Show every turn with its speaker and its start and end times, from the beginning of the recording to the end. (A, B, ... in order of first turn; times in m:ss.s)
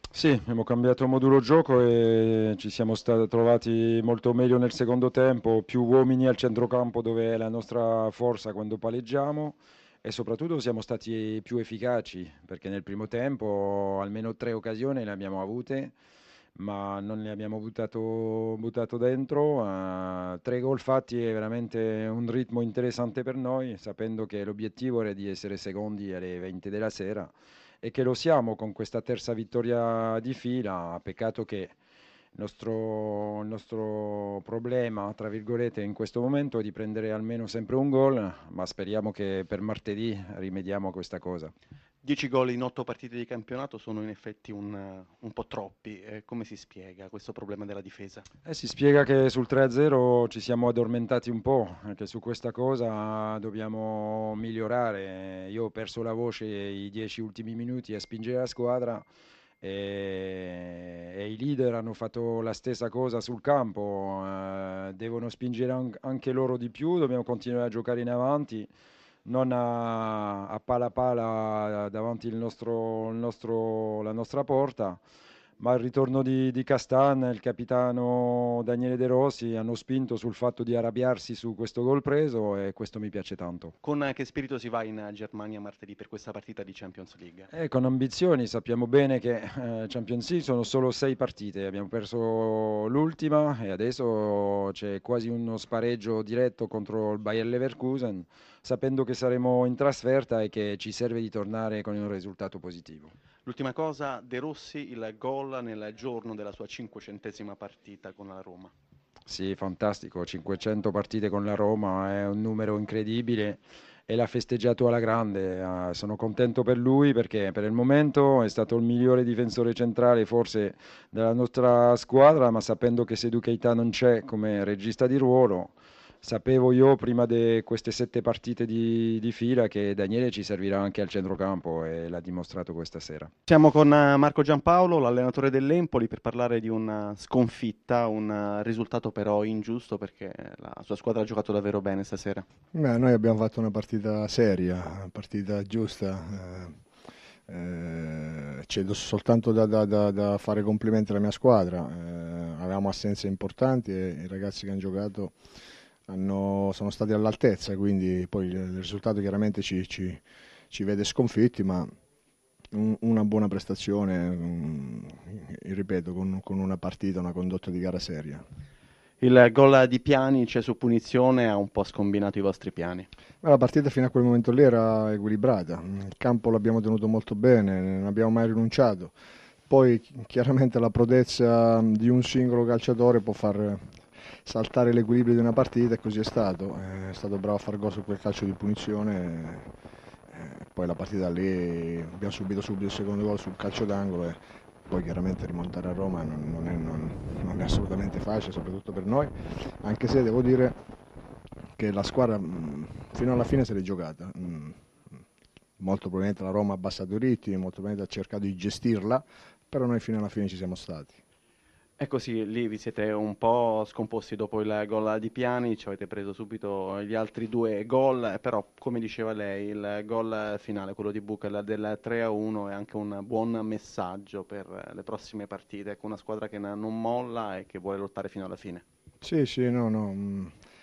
0:00.1-0:15.9 A
0:16.5-0:31.7 A
0:32.3-0:41.5 A
0:42.0-0:48.2 B
0:48.4-0:59.0 A
0:59.6-1:08.7 A
1:09.2-1:15.0 A
1:15.6-1:23.7 A
1:23.8-1:27.5 B
1:27.5-1:43.1 A
1:43.4-1:48.7 B
1:49.3-2:13.3 A
2:13.5-2:22.4 B
2:22.7-2:26.8 C
2:27.5-2:35.3 C
2:36.1-2:40.2 C
2:40.7-2:41.9 C
2:42.7-2:48.4 C
2:49.2-2:53.1 B
2:53.4-2:59.1 C
2:59.7-3:03.9 C
3:04.4-3:09.7 C
3:10.3-3:20.8 C
3:21.8-3:24.8 C
3:25.8-3:31.2 C
3:32.0-3:48.8 B
3:49.2-3:50.5 C